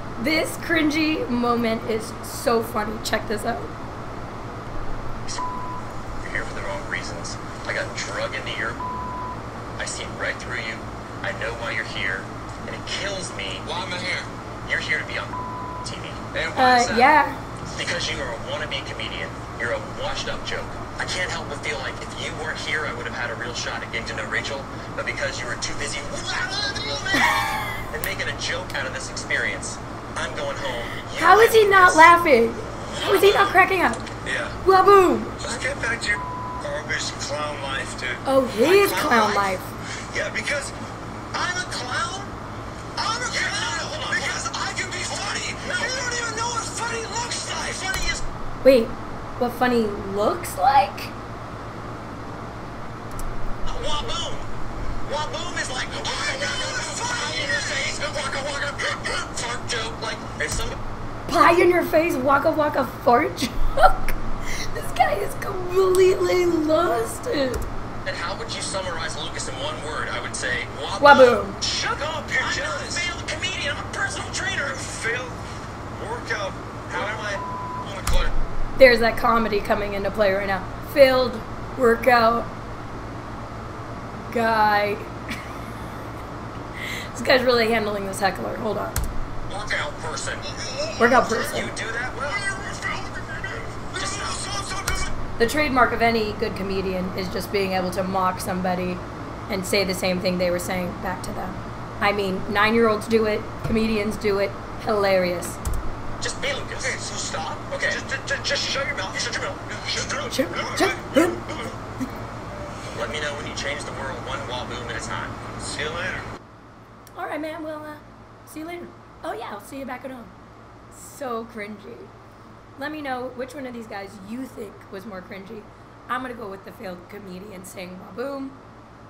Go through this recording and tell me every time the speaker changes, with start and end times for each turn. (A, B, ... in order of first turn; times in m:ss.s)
0:00.2-0:03.7 A
0:06.2-0:08.8 B
0:09.8-0:13.7 B
0:13.6-0:14.3 C
0:14.6-0:16.2 B
0:16.3-0:17.1 C
0:16.6-0:17.4 A
0:17.7-0:32.1 B
0:31.2-0:34.0 A
0:32.7-0:33.6 B
0:34.2-0:34.6 C
0:34.6-0:35.4 A
0:35.4-0:38.2 C
0:38.2-0:39.7 A
0:38.6-0:39.5 B
0:40.1-0:40.7 C
0:41.3-0:42.3 C
0:43.0-0:48.2 C
0:43.3-0:44.4 B
0:45.6-0:46.0 B
0:48.6-0:51.1 A
0:53.6-0:54.5 B
0:55.0-1:00.8 B
0:56.0-0:58.2 C
1:01.3-1:07.6 A
1:08.0-1:14.9 B
1:11.0-1:11.6 A
1:11.6-1:13.1 C
1:14.9-1:15.4 C
1:15.9-1:18.3 C
1:16.9-1:17.4 B
1:18.8-1:22.5 A
1:24.3-1:25.1 A
1:27.1-1:29.0 A
1:29.5-1:30.5 B
1:30.6-1:31.6 C
1:31.0-1:31.7 A
1:31.3-1:32.4 B
1:32.2-1:35.1 C
1:33.9-1:34.4 B
1:35.4-1:45.6 A
1:46.2-1:47.0 B
1:46.8-1:51.8 C
1:47.7-1:48.0 B
1:49.2-1:50.0 B
1:50.2-1:51.4 A
1:52.9-1:55.4 B
1:55.6-1:56.3 C
1:57.2-2:00.3 A
2:00.9-2:02.1 A
2:02.8-2:08.6 A